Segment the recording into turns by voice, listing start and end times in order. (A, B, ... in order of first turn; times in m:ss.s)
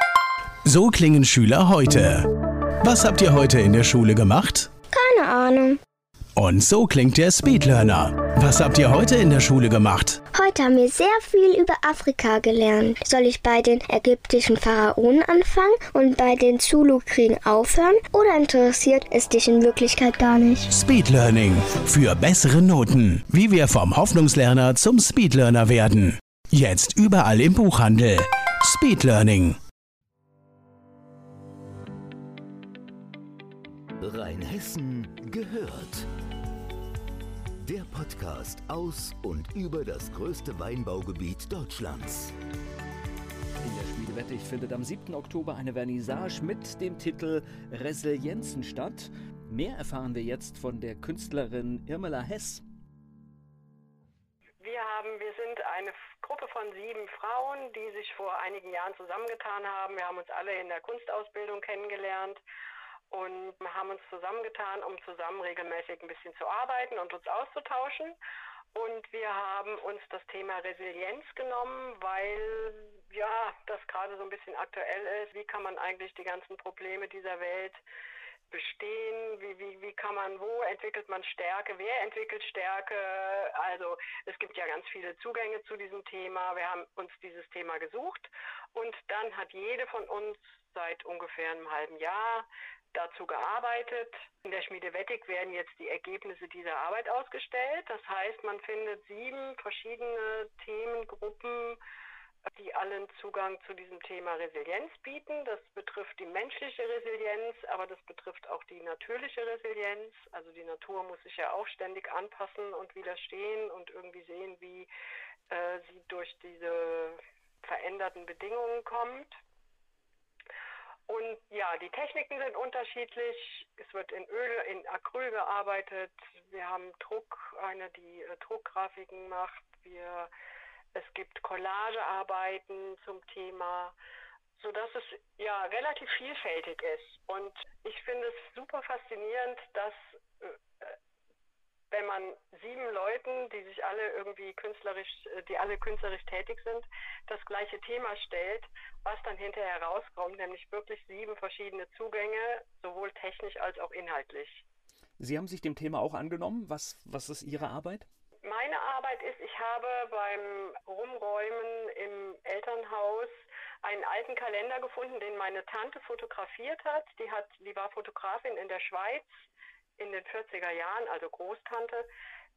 0:00.7-0:02.2 A
0:02.8-0:04.7 A
0:04.9-0:05.8 B
0:06.4-0:10.2 A
0:10.3-0:20.6 B
0:20.7-0:29.6 A
0:34.0-0:36.1 C
0:37.6-0:42.3 C
0:43.6-0:52.6 D
0:54.6-1:02.4 E
1:03.1-1:08.2 E
1:08.7-1:17.8 E
1:18.5-1:41.8 E
1:42.5-1:54.9 E
1:55.5-1:59.3 E
2:01.1-2:10.3 E
2:10.9-2:13.9 E
2:14.6-2:21.0 E
2:21.9-2:34.6 E
2:35.2-2:38.1 D
2:38.4-2:49.4 E
2:50.0-2:52.1 E